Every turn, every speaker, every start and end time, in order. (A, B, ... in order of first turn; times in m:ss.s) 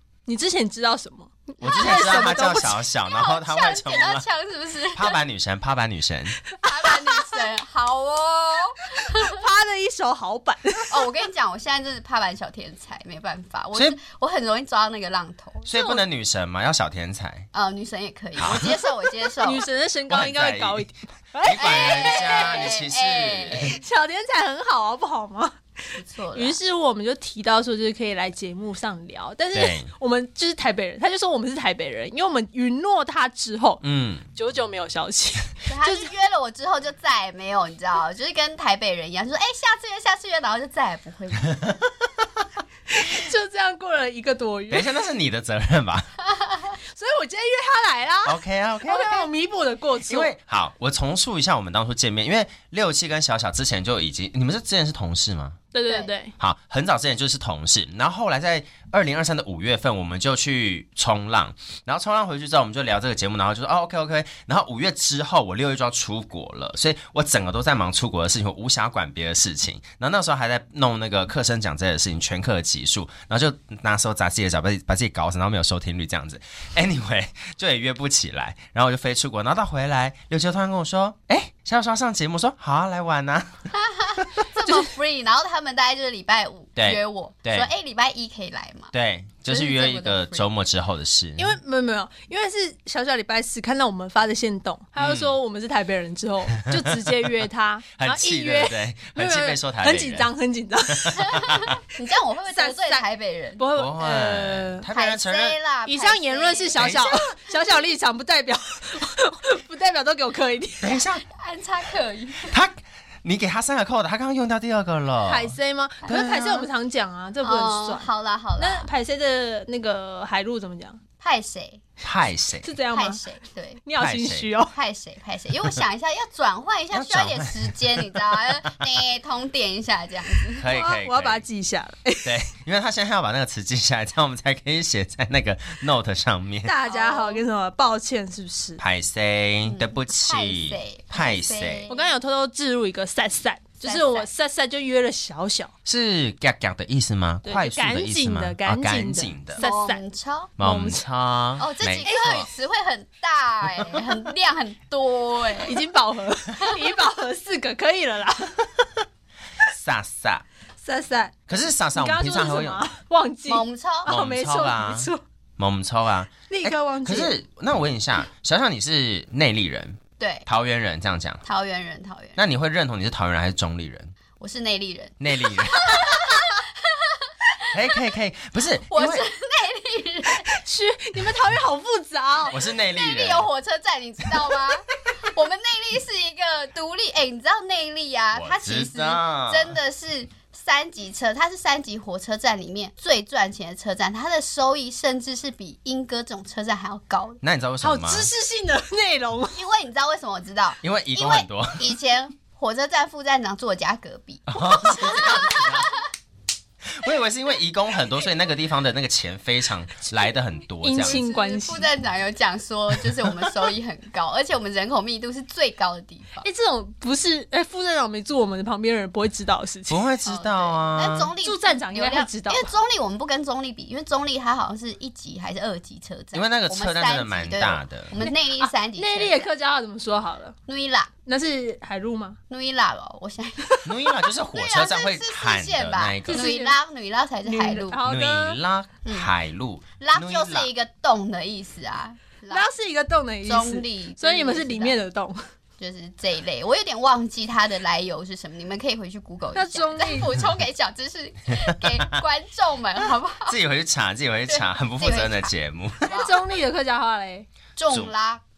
0:00.2-0:02.8 A
0:01.6-0:05.2 B
0:01.6-0:04.2 C
0:04.9-0:06.4 C
0:06.6-0:09.4 B
0:06.6-0:07.5 A
0:09.0-0:11.0 A
0:10.9-0:15.7 B
0:15.6-0:17.5 C
0:15.7-0:16.0 A
0:17.5-0:19.6 B
0:18.4-0:18.7 C
0:19.4-0:22.8 A
0:20.1-0:20.9 C
0:21.4-0:23.8 C
0:21.6-0:23.8 B
0:23.7-0:25.6 A
0:26.0-0:26.6 B
0:26.3-0:33.8 A
0:29.5-0:29.9 C
0:33.8-0:34.2 C
0:34.3-0:36.1 A
0:35.7-0:41.6 B
0:42.9-0:44.9 A
0:44.7-0:46.1 C
0:46.3-0:46.8 B
0:46.9-0:50.3 A
0:48.2-0:49.3 C
0:50.0-0:55.6 C
0:55.7-0:56.3 A
0:56.4-1:24.2 C
1:23.7-1:28.9 B
1:26.8-1:27.7 C
1:28.9-1:31.5 C
1:29.5-1:30.5 B
1:31.4-1:41.4 A
1:35.0-1:35.3 C
1:36.6-1:37.3 C
1:38.0-1:40.3 C
1:40.9-1:41.8 C
1:41.2-1:43.6 B
1:42.5-1:43.0 A
1:43.6-1:44.9 A
1:43.7-1:45.6 C
1:44.9-1:47.1 B
1:45.8-1:51.0 A
1:46.7-1:47.2 C
1:50.8-1:51.2 C
1:51.3-1:52.5 B
1:52.4-1:56.7 C
1:55.2-2:01.0 A
1:57.4-1:58.9 B
2:01.2-2:01.8 B
2:02.0-2:02.7 C
2:02.6-2:03.2 A
2:02.9-2:03.8 B
2:03.8-2:04.7 A
2:04.0-2:04.5 C
2:04.7-2:10.6 B
2:06.9-2:08.1 C
2:10.6-2:11.4 C
2:10.6-2:12.4 A
2:12.2-2:16.7 C
2:16.6-2:18.8 A
2:16.8-2:17.4 B
2:18.8-2:21.8 C
2:19.6-2:22.1 B
2:21.9-2:25.7 A
2:23.8-2:24.3 B
2:25.8-2:29.6 C
2:27.4-2:30.0 A
2:29.6-2:30.5 B
2:30.6-2:32.5 C
2:30.6-2:31.0 A
2:31.6-2:35.8 B
2:32.0-2:32.3 A
2:35.6-2:38.6 A
2:36.6-2:36.8 B
2:39.6-2:40.4 C
2:40.8-2:45.2 A
2:41.5-2:42.8 C
2:43.5-2:44.1 B
2:44.1-2:51.4 C
2:46.5-2:47.3 A
2:50.2-2:50.4 B
2:51.4-2:52.4 B
2:52.4-2:54.1 C
2:54.4-2:57.8 B
2:55.2-2:56.2 C
2:57.7-2:59.2 C
2:58.9-3:00.5 B
3:00.5-3:02.6 A
3:02.5-3:03.5 C
3:02.9-3:17.4 B
3:08.3-3:09.8 C
3:17.4-3:18.3 C
3:17.8-3:19.6 A
3:19.5-3:26.0 B
3:20.8-3:21.9 C
3:24.5-3:25.9 C
3:24.9-3:25.3 A
3:26.8-3:31.2 C
3:30.8-3:31.9 A
3:31.0-3:36.5 B
3:36.4-3:40.0 A
3:39.9-3:41.3 C
3:40.2-3:49.5 B
3:41.4-3:42.7 A
3:46.3-3:48.1 C
3:48.2-3:50.6 A
3:50.7-3:51.1 B
3:51.2-3:52.4 A
3:52.5-3:53.8 B
3:53.6-3:54.0 A
3:53.8-3:56.5 C
3:54.5-3:58.0 B
3:56.2-3:56.8 A
3:57.4-3:58.6 A
3:58.0-4:00.7 C
4:00.0-4:02.7 B
4:02.5-4:05.4 A
4:03.4-4:05.0 B
4:05.8-4:13.6 B
4:09.5-4:10.3 A
4:11.7-4:12.2 C
4:13.5-4:16.1 C
4:14.5-4:15.5 B
4:16.0-4:16.4 B
4:16.1-4:17.4 A
4:17.8-4:18.4 B